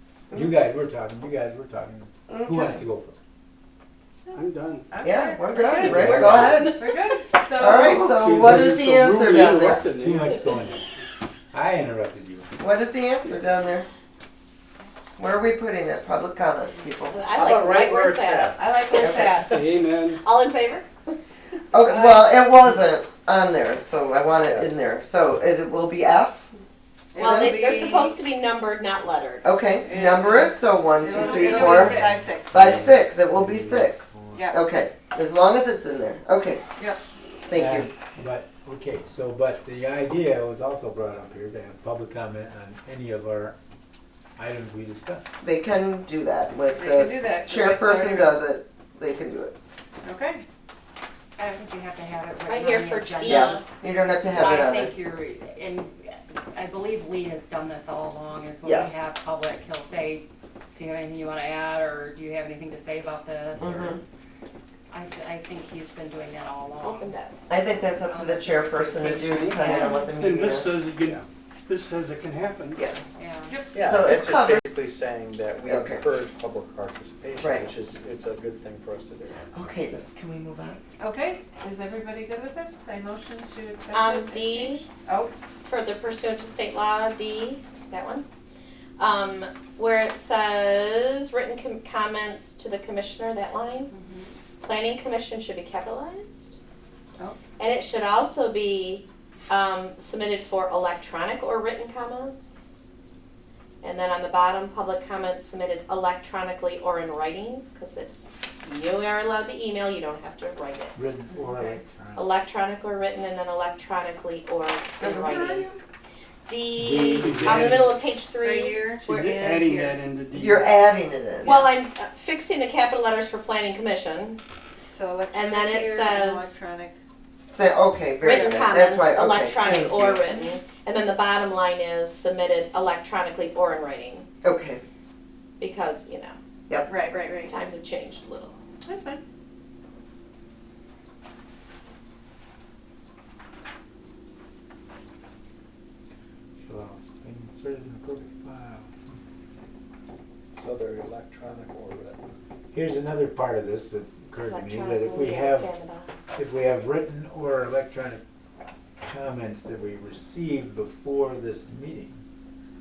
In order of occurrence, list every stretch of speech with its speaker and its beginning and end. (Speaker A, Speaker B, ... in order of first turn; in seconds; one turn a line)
Speaker A: 0.3-3.1
Speaker B: 2.3-2.8
Speaker C: 4.3-8.3
Speaker D: 4.3-5.0
Speaker B: 5.0-6.8
Speaker E: 5.6-6.9
Speaker D: 5.8-6.5
Speaker A: 6.0-6.3
Speaker B: 7.5-9.9
Speaker D: 7.8-10.5
Speaker A: 9.9-10.9
Speaker A: 11.5-12.5
Speaker B: 12.6-13.9
Speaker B: 15.2-17.2
Speaker E: 17.1-19.3
Speaker F: 17.4-19.3
Speaker C: 18.6-19.6
Speaker D: 19.3-20.2
Speaker E: 20.0-20.9
Speaker B: 21.7-26.5
Speaker F: 24.4-24.7
Speaker C: 27.1-28.2
Speaker B: 27.2-27.6
Speaker E: 27.2-29.5
Speaker B: 29.4-36.6
Speaker C: 29.8-32.8
Speaker E: 31.1-31.6
Speaker G: 31.3-32.1
Speaker A: 31.7-34.5
Speaker C: 34.3-34.6
Speaker B: 37.5-37.9
Speaker A: 37.5-43.6
Speaker A: 44.4-45.2
Speaker B: 45.4-49.5
Speaker C: 46.7-48.4
Speaker C: 50.0-50.4
Speaker G: 51.4-64.0
Speaker E: 52.5-53.7
Speaker B: 53.3-54.9
Speaker B: 58.6-59.0
Speaker B: 63.6-64.0
Speaker G: 64.9-67.1
Speaker E: 66.8-67.4
Speaker B: 67.5-70.8
Speaker G: 68.1-70.1
Speaker D: 69.7-72.8
Speaker B: 72.8-73.1
Speaker G: 73.2-73.5
Speaker C: 73.5-73.9
Speaker F: 73.7-79.5
Speaker B: 73.8-74.7
Speaker B: 75.7-76.0
Speaker B: 77.4-77.7
Speaker B: 79.5-80.8
Speaker C: 81.0-85.3
Speaker E: 83.9-84.9
Speaker E: 85.7-88.2
Speaker E: 89.0-93.9
Speaker E: 94.6-96.5
Speaker E: 97.6-102.7
Speaker E: 103.8-111.1
Speaker A: 111.0-112.3
Speaker E: 112.2-115.7
Speaker B: 115.0-115.8
Speaker C: 115.3-115.7
Speaker E: 116.5-119.4
Speaker A: 116.8-118.0
Speaker D: 117.0-117.9
Speaker C: 117.5-117.8
Speaker C: 118.3-120.0
Speaker D: 119.0-120.7
Speaker B: 120.3-121.7
Speaker E: 121.4-124.4
Speaker C: 124.9-127.0
Speaker E: 125.3-126.6
Speaker B: 127.5-130.2
Speaker E: 128.2-134.3
Speaker B: 134.4-134.8
Speaker E: 135.6-136.3
Speaker C: 136.9-137.6
Speaker E: 137.2-138.6
Speaker C: 138.8-139.2
Speaker A: 146.6-149.2
Speaker F: 150.6-152.2
Speaker A: 152.7-155.7
Speaker E: 154.4-156.1
Speaker A: 156.3-158.2
Speaker A: 159.0-162.2